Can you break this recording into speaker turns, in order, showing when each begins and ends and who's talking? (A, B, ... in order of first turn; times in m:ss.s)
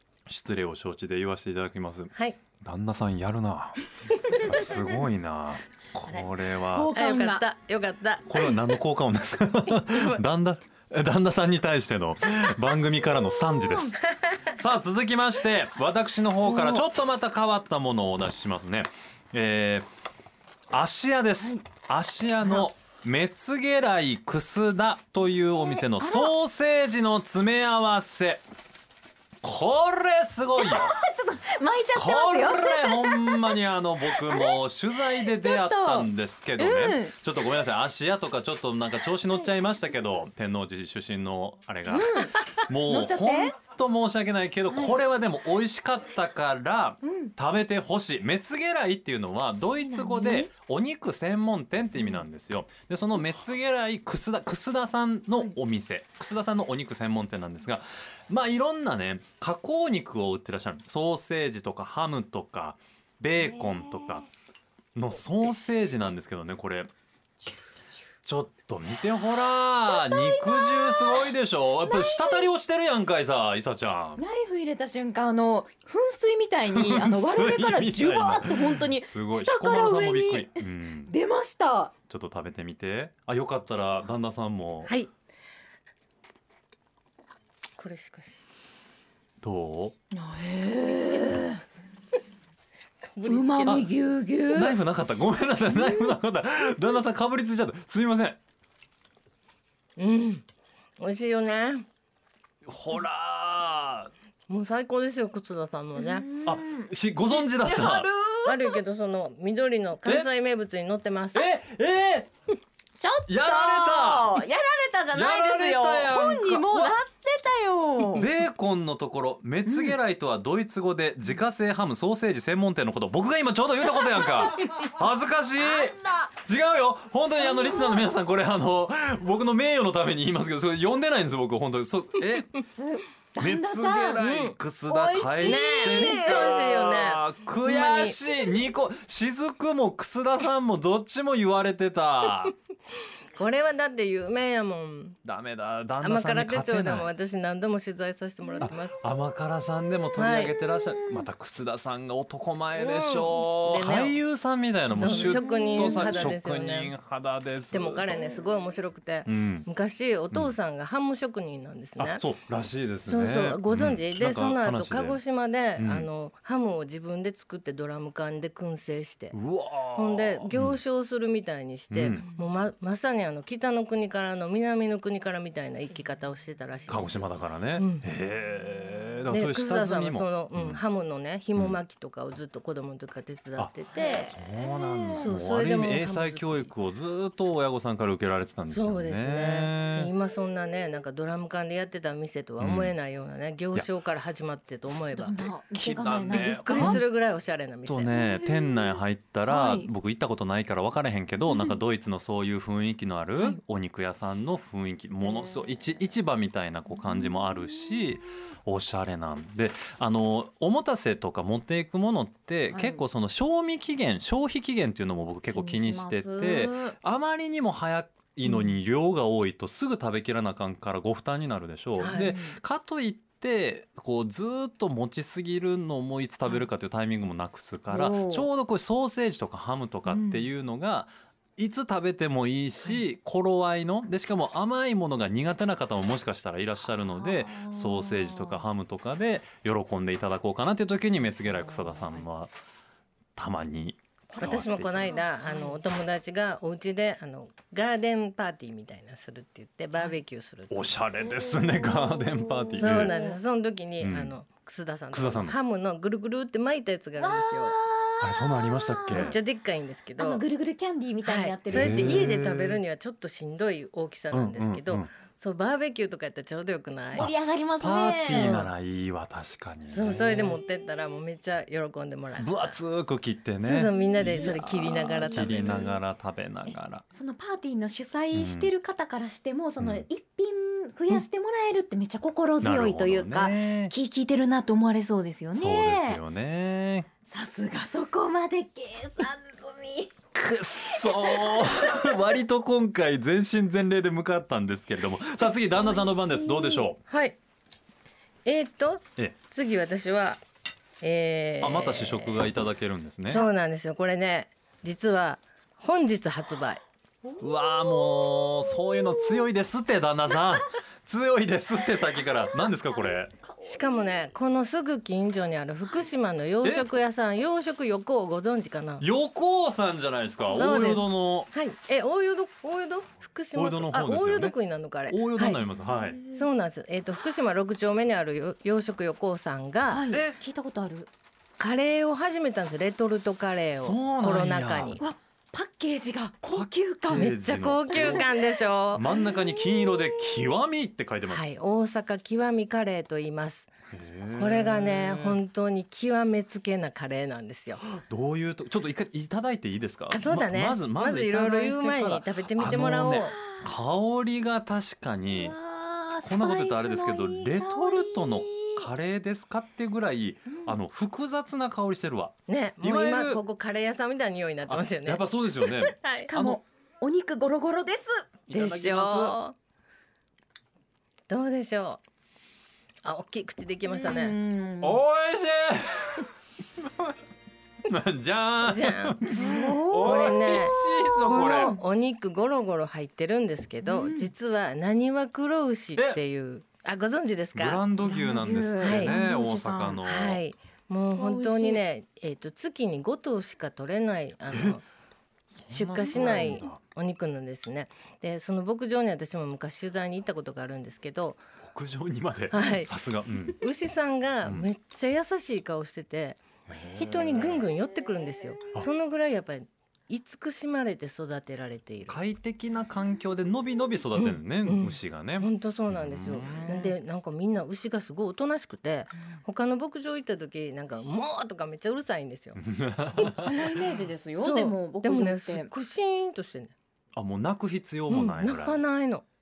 0:00.3-0:06.9 A
0:02.1-0:02.4 B
0:04.5-0:05.0 C
0:06.1-0:07.4 C
0:06.9-0:08.7 B
0:08.3-0:19.8 A
0:09.8-0:10.2 B
0:13.4-0:13.9 C
0:14.1-0:14.5 B
0:16.5-0:16.8 C
0:20.7-0:28.4 A
0:25.6-0:26.3 C
0:29.4-0:31.0 A
0:30.6-0:37.2 C
0:31.9-1:04.3 A
0:41.9-0:43.5 C
0:44.7-0:45.0 C
0:47.0-0:47.3 C
0:49.8-0:50.5 C
0:52.0-0:52.2 C
1:03.4-1:04.2 C
1:04.9-1:06.9 A
1:08.2-1:14.2 A
1:09.9-1:12.5 C
1:14.2-1:21.9 C
1:16.7-1:21.1 A
1:22.1-1:24.9 A
1:27.8-1:28.4 B
1:29.4-1:29.9 A
1:30.1-1:31.6 C
1:31.0-1:31.5 B
1:33.1-1:33.9 B
1:33.3-1:34.8 C
1:33.6-1:33.9 A
1:34.5-1:38.4 A
1:35.8-1:36.1 C
1:40.0-1:40.4 B
1:41.0-1:41.8 B
1:42.6-1:44.1 A
1:44.5-1:46.3 B
1:46.0-1:48.8 C
1:46.4-1:48.1 A
1:48.4-1:51.5 B
1:51.3-1:52.3 A
1:53.0-1:58.3 C
1:53.3-1:54.4 A
1:55.1-1:57.0 A
1:58.1-2:12.6 A
1:59.6-2:00.0 C
2:03.9-2:04.4 C
2:05.6-2:06.3 C
2:07.4-2:08.0 C
2:12.5-2:14.3 C
2:13.4-2:22.6 A
2:14.2-2:14.6 B
2:14.9-2:16.6 C
2:15.4-2:18.2 B
2:23.3-2:25.2 B
2:25.2-2:27.1 A
2:26.0-2:29.0 B
2:28.6-2:38.2 A
2:30.2-2:30.5 B
2:30.8-2:31.2 C
2:32.8-2:34.2 B
2:34.9-2:36.9 B
2:35.0-2:36.3 C
2:37.7-2:42.2 B
2:39.2-2:39.7 A
2:42.0-2:45.2 A
2:43.0-2:49.4 B
2:45.8-2:46.1 A
2:49.3-2:50.8 A
2:49.9-2:58.1 B
2:51.9-2:52.3 A
2:56.9-3:00.8 A
2:59.3-3:04.4 B
3:03.6-3:10.1 A
3:04.1-3:05.3 C
3:05.2-3:06.7 B
3:08.7-3:15.5 B
3:12.6-3:12.9 A
3:14.9-3:17.0 C
3:15.7-3:17.0 A
3:16.3-3:18.1 B
3:17.8-4:02.5 A
3:18.1-3:19.9 C
3:21.5-3:21.8 C
3:25.2-3:25.8 C
3:27.0-3:28.2 C
3:32.7-3:33.0 C
3:35.5-3:37.0 C
3:38.4-3:38.7 C
3:42.0-3:42.4 B
3:42.0-3:42.6 C
3:47.9-3:48.5 C
3:50.1-3:50.5 C
3:57.1-3:58.6 C
4:01.5-4:02.2 C
4:03.4-4:05.2 A
4:04.3-4:10.9 B
4:05.4-4:05.8 C
4:10.7-4:13.1 A
4:11.3-4:13.4 C
4:12.8-4:17.8 B
4:14.0-4:14.3 A
4:15.1-4:15.6 A
4:17.2-4:19.4 C
4:18.2-4:19.4 A
4:19.1-4:20.4 B
4:20.2-4:22.2 C
4:21.2-4:27.3 B
4:21.7-4:22.8 A
4:24.3-4:25.1 A
4:27.1-4:28.7 C
4:27.2-4:30.6 A
4:28.4-4:28.6 B
4:29.9-4:32.8 B
4:32.4-4:37.0 A
4:33.6-4:35.8 B
4:34.0-4:35.9 C
4:36.7-4:46.2 C
4:38.3-4:38.7 A
4:39.8-4:40.0 A
4:42.6-4:43.9 A
4:45.5-4:47.1 A
4:47.3-4:50.1 C
4:50.3-4:57.0 A
4:50.9-4:52.3 C
4:55.7-4:56.9 C
4:57.1-4:57.4 B
4:58.4-5:00.4 B
5:01.0-5:02.4 B
5:01.6-5:03.4 A
5:03.3-5:06.8 B
5:07.3-5:09.5 C
5:07.4-5:13.3 A
5:12.2-5:14.2 C
5:13.6-5:19.0 B
5:16.6-5:16.9 A
5:19.0-5:21.5 A
5:20.5-5:25.6 B
5:23.5-5:24.5 A
5:25.1-5:26.2 A
5:25.8-5:26.4 C
5:26.3-5:30.1 B
5:29.9-5:31.1 C
5:30.1-5:30.4 A
5:31.6-5:35.0 B
5:33.7-5:35.0 A
5:35.0-5:37.3 C
5:36.5-5:38.3 A
5:37.1-5:39.0 B
5:37.9-5:38.3 C
5:38.9-5:41.4 A
5:39.1-5:40.3 C
5:41.3-5:43.7 B
5:43.9-5:45.4 A
5:44.3-5:47.8 B
5:47.8-5:55.6 A
5:50.1-5:53.4 B
5:53.2-5:53.6 C
5:55.3-5:58.9 C
5:56.2-6:03.4 A
6:00.5-6:00.8 C
6:02.5-6:05.2 B
6:04.7-6:06.6 A
6:05.9-6:06.3 B
6:06.0-6:08.2 C
6:08.5-6:09.4 A
6:08.5-6:09.6 B
6:11.3-6:12.0 B
6:13.0-6:14.4 B
6:13.9-6:15.0 C
6:14.8-6:17.1 A
6:17.8-6:21.7 A
6:18.6-6:19.2 B
6:19.3-6:21.8 C
6:20.0-6:27.8 B
6:23.8-6:24.3 C
6:27.5-6:30.4 A
6:28.0-6:30.0 C
6:28.8-6:29.2 B
6:30.0-6:34.8 B
6:31.1-6:31.8 C
6:34.5-6:34.8 A
6:35.5-6:36.8 A
6:35.7-6:41.4 B
6:36.0-6:36.6 C
6:41.6-6:43.6 A
6:42.5-6:42.9 B
6:43.5-6:52.2 B
6:46.7-6:47.6 A
6:52.1-6:56.9 A
6:54.2-7:02.6 B
6:56.6-6:56.9 C
7:02.6-7:03.8 A
7:03.3-7:05.7 C
7:04.3-7:06.7 B
7:07.2-7:08.8 A
7:08.1-7:09.2 B